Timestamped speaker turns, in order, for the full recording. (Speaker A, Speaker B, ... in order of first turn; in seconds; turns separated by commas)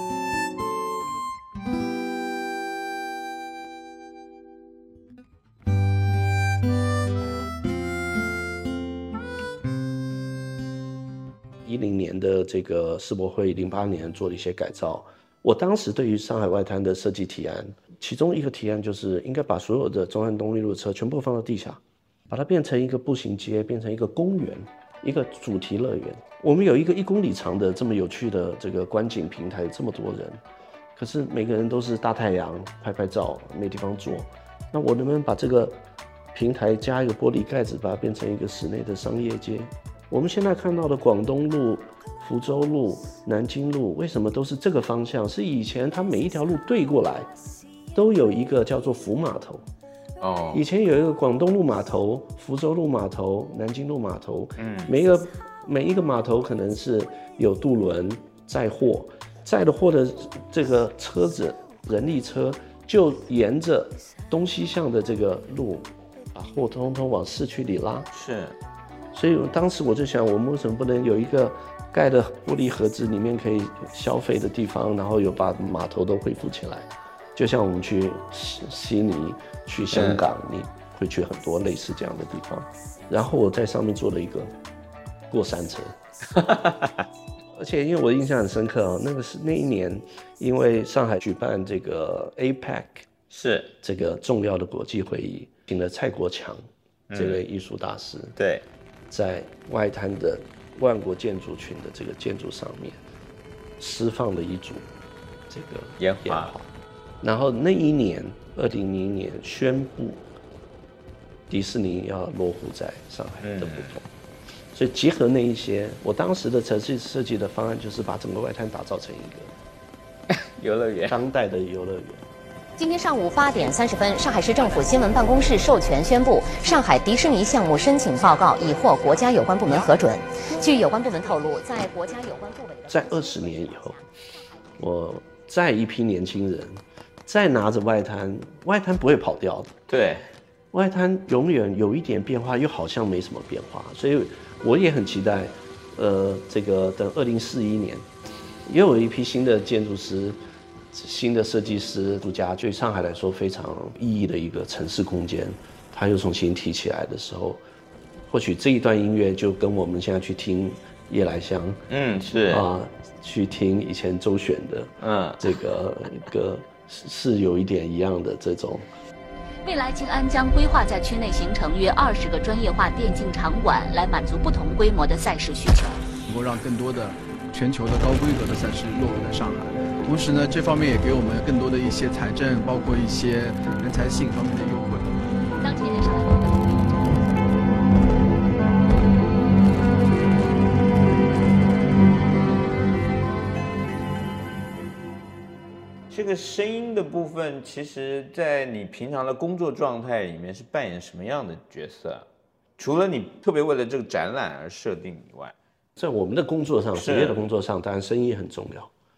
Speaker A: 11.7-30.4, Speaker A: 31.0-35.8, Speaker A: 36.3-47.3, Speaker A: 47.9-49.6, Speaker B: 50.2-50.6, Speaker A: 50.5-68.1, Speaker B: 54.6-54.9, Speaker B: 68.1-68.6, Speaker A: 69.1-84.5, Speaker B: 79.9-80.2, Speaker A: 85.3-86.0, Speaker B: 86.3-87.1, Speaker A: 87.5-93.1, Speaker B: 93.3-93.7, Speaker A: 93.8-98.4, Speaker B: 97.1-97.4, Speaker B: 98.4-98.7, Speaker A: 99.1-103.0, Speaker A: 103.8-104.9, Speaker A: 105.5-106.7, Speaker B: 106.0-106.5, Speaker A: 107.2-110.2, Speaker A: 111.5-114.1, Speaker B: 113.4-114.0, Speaker A: 114.7-119.5, Speaker B: 120.3-121.2, Speaker A: 121.1-122.2, Speaker C: 122.8-132.9, Speaker A: 132.9-134.0, Speaker A: 134.8-139.7, Speaker B: 139.9-140.3, Speaker A: 140.7-148.1, Speaker A: 148.7-150.4, Speaker A: 150.9-157.6, Speaker A: 158.3-161.8, Speaker B: 161.9-162.7, Speaker A: 162.5-168.9, Speaker B: 165.0-165.5, Speaker D: 169.6-176.1, Speaker E: 176.2-185.1, Speaker B: 196.1-202.3, Speaker B: 202.8-205.6, Speaker A: 206.0-208.9, Speaker B: 206.9-207.4